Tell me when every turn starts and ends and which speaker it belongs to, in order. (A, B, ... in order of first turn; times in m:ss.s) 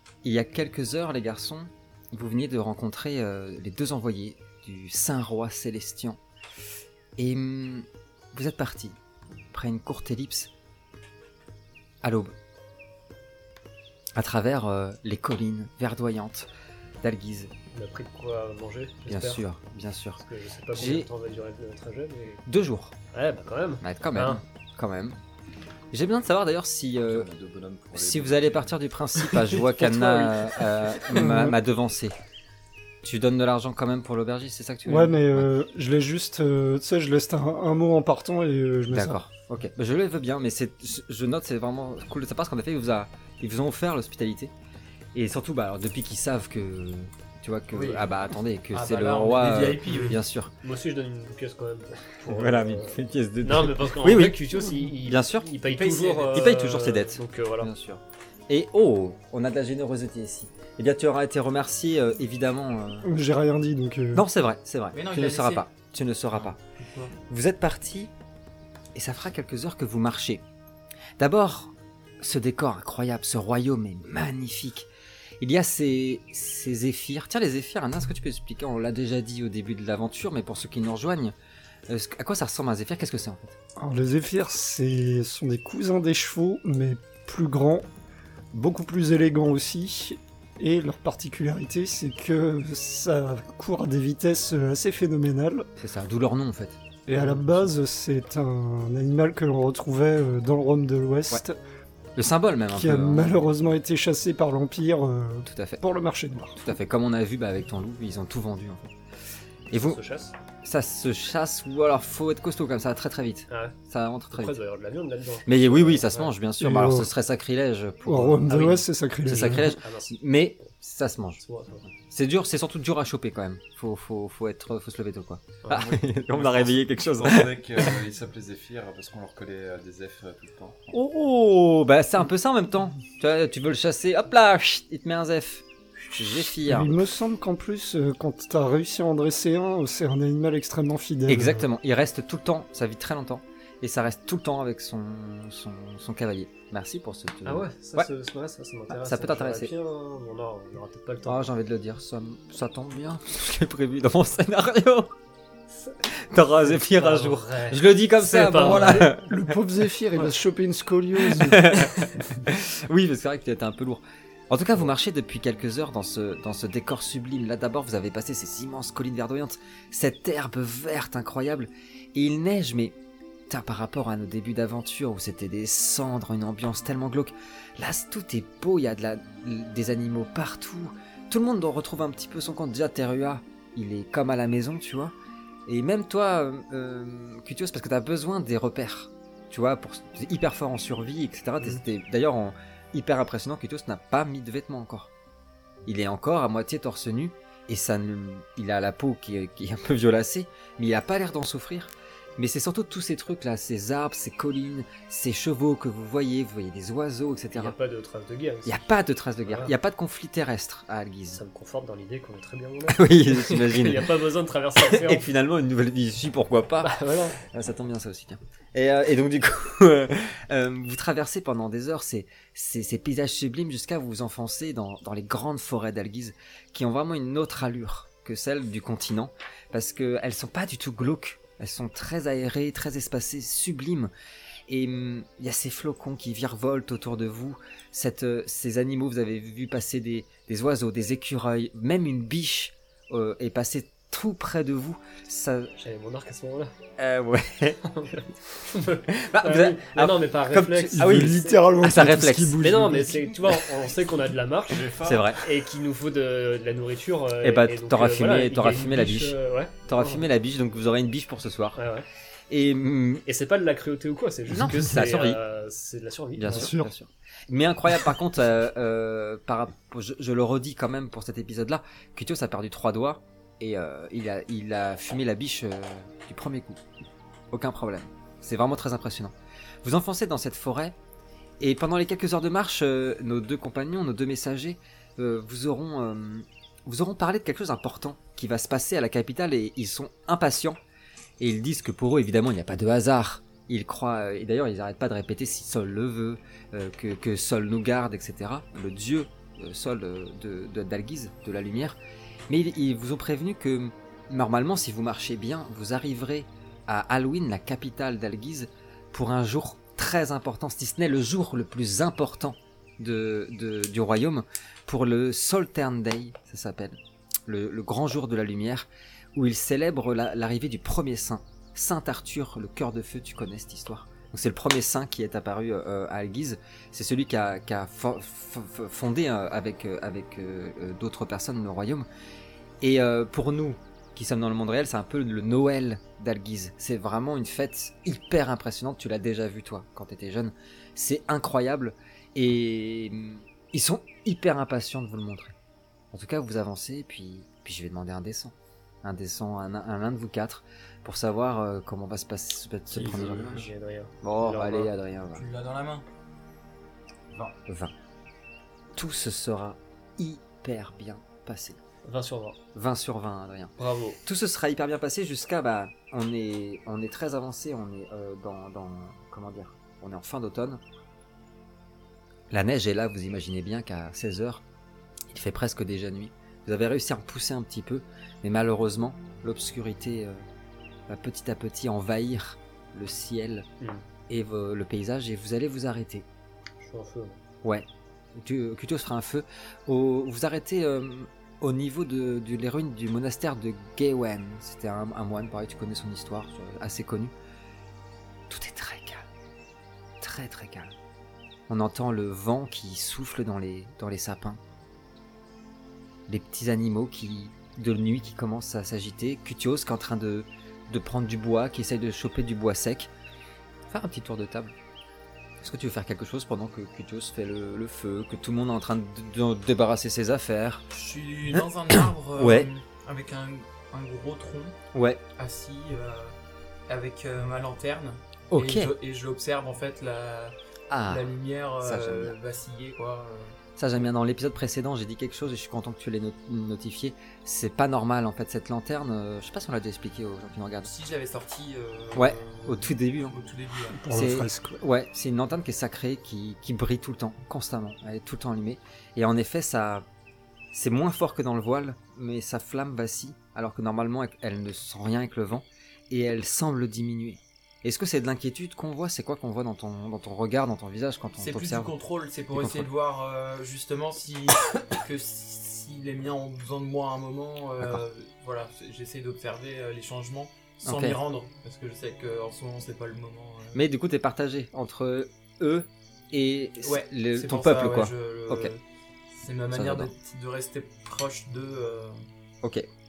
0:00.2-0:06.2 A
0:07.2-0:09.0 A
0:09.5-0:10.5 A
0:12.0-0:12.3 A
0:14.2-0:16.5 A
0:17.0-0:17.5 A
0:17.7-0:19.4 B
0:19.1-0:20.2 A
0:20.2-0:22.4 B
0:20.7-0:21.1 A
0:22.5-0:23.0 A
0:23.1-0:24.4 B
0:23.8-0:25.2 A
0:25.9-0:27.3 A
0:27.1-0:28.8 C
0:28.0-0:32.2 A
0:29.4-0:30.6 B
0:31.2-0:31.6 D
0:33.0-0:35.5 A
0:34.9-0:39.2 D
0:38.9-0:44.5 A
0:45.1-0:50.5 A
0:47.7-0:48.1 E
0:48.7-0:50.2 E
0:50.6-0:57.7 B
0:52.3-0:55.5 A
0:55.7-0:56.5 E
0:56.3-1:03.1 A
1:03.0-1:04.3 D
1:04.1-1:06.6 A
1:04.9-1:05.6 E
1:06.4-1:07.2 E
1:07.3-1:08.1 A
1:09.0-1:10.4 A
1:11.2-1:14.9 A
1:15.4-1:21.4 A
1:21.9-1:23.6 A
1:23.8-1:27.9 D
1:28.5-1:35.7 D
1:35.8-1:37.7 A
1:37.1-1:41.6 D
1:42.2-1:43.4 A
1:42.7-1:46.6 D
1:45.5-1:45.8 A
1:46.6-1:48.9 A
1:49.7-1:50.0 A
1:49.7-1:50.4 B
1:50.6-1:54.6 A
1:53.5-1:53.8 B
1:54.3-1:56.3 B
1:55.5-2:07.9 A
1:56.6-1:57.1 D
1:58.0-1:59.8 D
1:58.5-1:58.8 B
1:59.4-2:00.2 B
2:01.4-2:01.8 B
2:05.7-2:11.0 C
2:10.9-2:16.9 A
2:16.6-2:21.7 D
2:21.3-2:28.1 A
2:27.4-2:31.5 B
2:28.9-2:29.7 A
2:31.3-2:35.1 A
2:36.1-2:39.3 A
2:36.6-2:39.1 B
2:38.6-2:41.8 D
2:41.3-2:53.0 A
2:53.5-3:05.1 A
3:05.7-3:15.1 A
3:15.9-3:27.8 A
3:27.5-3:28.9 B
3:28.7-3:31.4 A
3:29.4-3:29.7 B
3:31.3-3:35.3 B
3:32.9-3:34.1 A
3:34.8-3:54.1 A
3:36.8-3:37.4 B
3:54.7-4:05.7 A
4:05.8-4:06.7 B
4:07.0-4:07.8 A
4:07.8-4:11.6 B
4:09.1-4:12.7 A
4:10.9-4:13.4 D
4:12.6-4:20.3 B
4:14.7-4:15.3 C
4:15.0-4:15.4 A
4:17.4-4:19.4 A
4:19.9-4:21.8 A
4:21.8-4:22.1 B
4:22.5-4:23.2 A
4:23.3-4:26.7 B
4:24.5-4:25.4 A
4:26.4-4:36.8 A
4:26.5-4:26.9 D
4:37.5-4:41.0 A
4:41.6-4:50.8 A
4:51.4-5:02.0 A
5:02.5-5:32.1 A
5:32.8-5:45.6 A
5:46.1-5:53.7 A
5:52.9-5:54.9 B
5:54.2-5:55.4 A
5:55.4-5:56.0 E
5:57.7-5:57.9 A
5:59.0-6:01.8 A
6:02.0-6:02.6 B
6:02.7-6:03.7 A
6:03.8-6:04.2 B
6:04.2-6:10.8 A
6:12.5-6:14.6 A
6:15.3-6:20.4 A
6:21.1-6:23.7 A
6:24.3-6:26.3 A
6:26.8-6:27.4 B
6:27.6-6:37.3 A
6:38.5-6:39.2 A
6:40.2-6:40.9 A
6:41.7-6:44.6 A
6:46.3-6:53.1 A
6:53.9-6:54.7 A
6:55.6-7:00.8 A
7:00.9-7:04.8 E
7:01.6-7:02.7 A
7:04.9-7:05.2 A
7:05.4-7:06.4 E
7:06.9-7:10.6 E
7:08.5-7:08.9 A
7:10.9-7:12.4 A
7:11.1-7:13.6 E
7:13.8-7:21.0 A
7:20.8-7:24.0 E
7:22.2-7:23.4 A
7:23.9-7:24.8 D
7:24.1-7:30.1 A
7:30.7-7:41.9 A
7:41.4-7:53.8 E
7:42.5-7:42.9 A
7:50.8-7:51.2 A
7:53.7-7:58.7 A
7:56.8-7:58.8 E
7:59.3-8:02.2 E
7:59.7-8:00.1 A